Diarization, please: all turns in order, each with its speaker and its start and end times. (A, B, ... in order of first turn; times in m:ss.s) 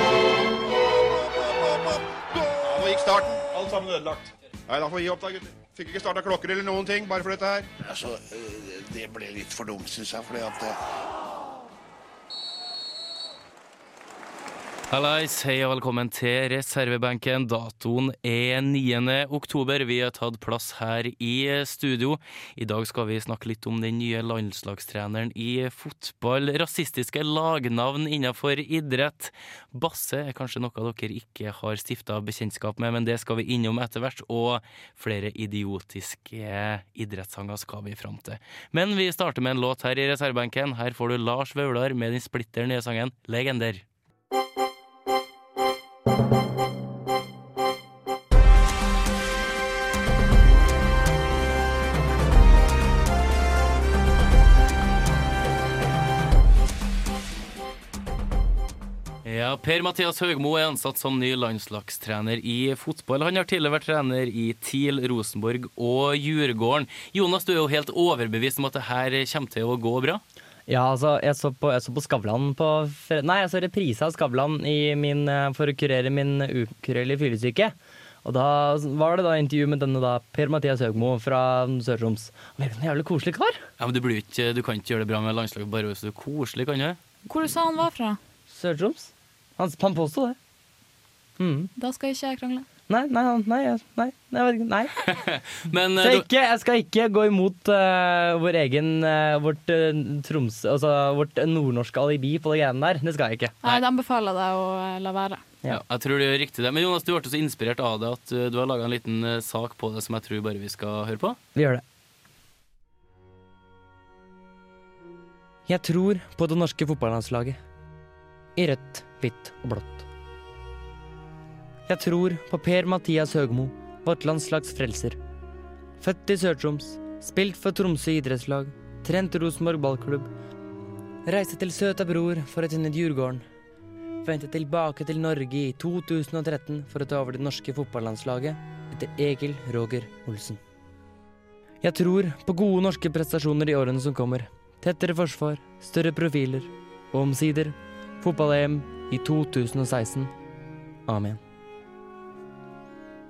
0:02.3-0:07.7 A
0:07.8-0:10.8 B
0:14.9-0:43.8 C
0:59.2-1:10.2 C
1:10.7-1:23.6 D
1:23.8-1:27.0 C
1:27.2-1:28.2 E
1:28.5-1:30.4 D
1:31.4-1:31.7 D
1:31.8-1:32.6 E
1:32.9-1:34.9 D
1:35.0-1:36.2 C
1:36.0-1:43.5 D
1:43.6-1:45.4 E
1:45.7-1:51.4 C
1:51.5-1:51.8 D
1:55.7-1:57.6 D
1:58.6-2:00.0 D
2:01.9-2:05.2 D
2:06.0-2:10.3 D
2:11.2-2:13.4 D
2:14.2-2:20.6 D
2:21.8-2:30.3 D
2:31.1-2:31.4 D